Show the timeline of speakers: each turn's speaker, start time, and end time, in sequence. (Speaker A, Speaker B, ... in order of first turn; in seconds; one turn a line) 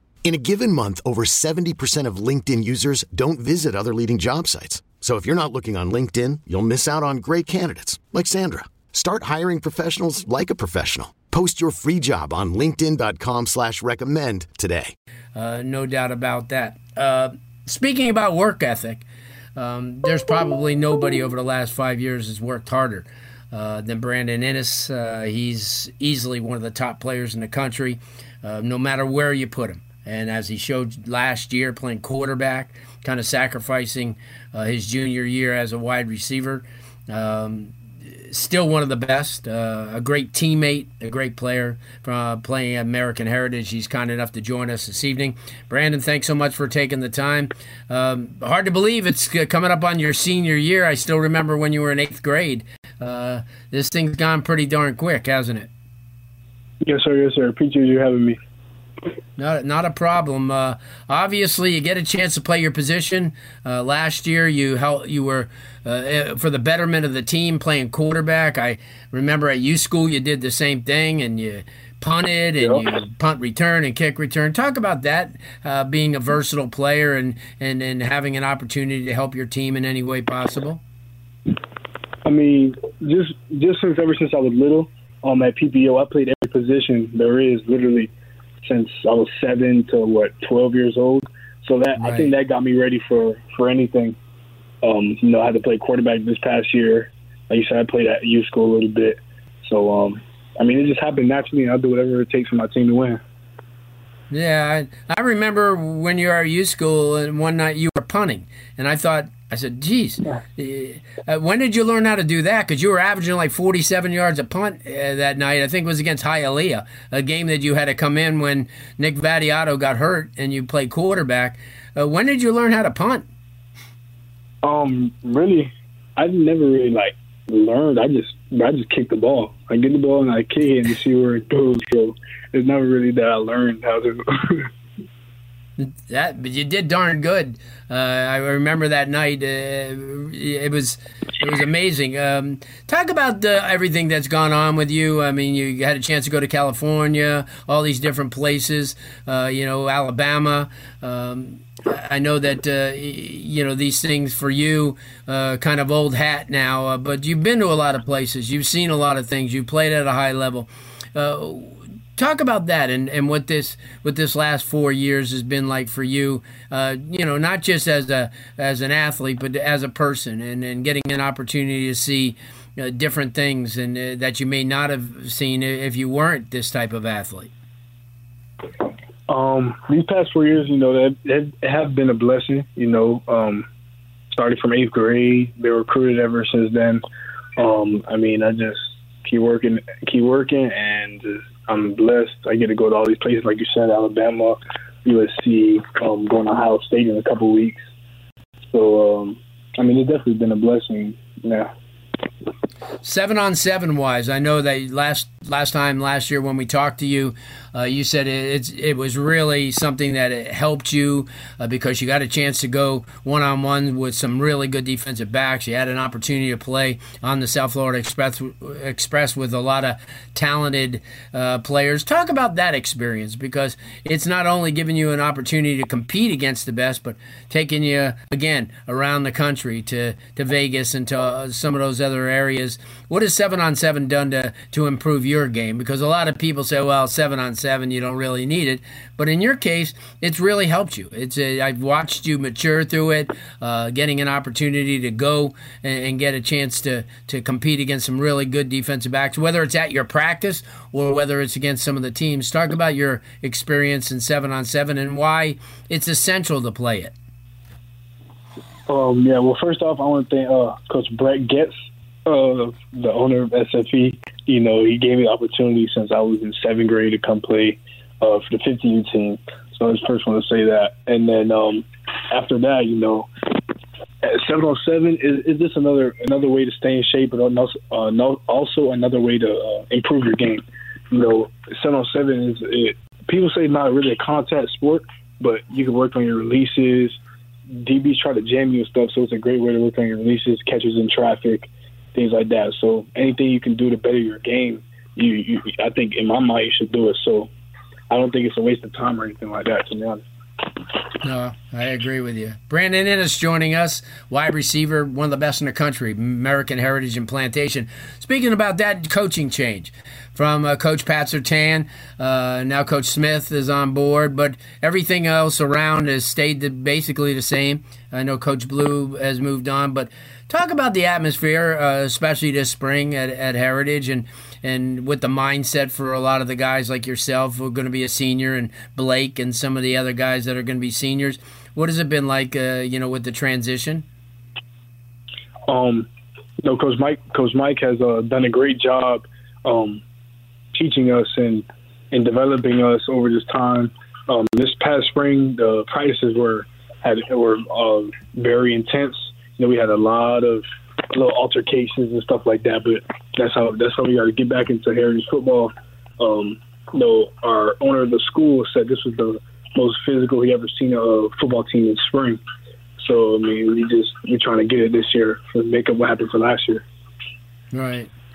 Speaker A: 0.2-14.9
Speaker B: 15.3-19.0
Speaker B: 19.6-37.7
Speaker B: 38.3-55.7
Speaker C: 56.8-58.4
Speaker B: 59.4-80.8
Speaker C: 82.2-88.1
Speaker C: 88.6-94.2
Speaker B: 92.0-92.3
Speaker C: 94.8-103.2
Speaker B: 104.3-123.3
Speaker C: 124.6-134.7
Speaker B: 135.8-177.5
Speaker C: 179.3-183.7
Speaker C: 184.3-187.0
Speaker C: 187.6-197.8
Speaker C: 198.7-201.7
Speaker B: 203.0-257.1
Speaker C: 258.9-261.7
Speaker C: 262.2-273.3
Speaker C: 274.2-287.2
Speaker C: 287.7-297.5
Speaker C: 298.1-300.2
Speaker B: 301.2-334.1
Speaker C: 335.7-336.1
Speaker C: 336.6-340.0
Speaker C: 340.7-362.4
Speaker C: 363.0-366.8
Speaker B: 367.7-368.1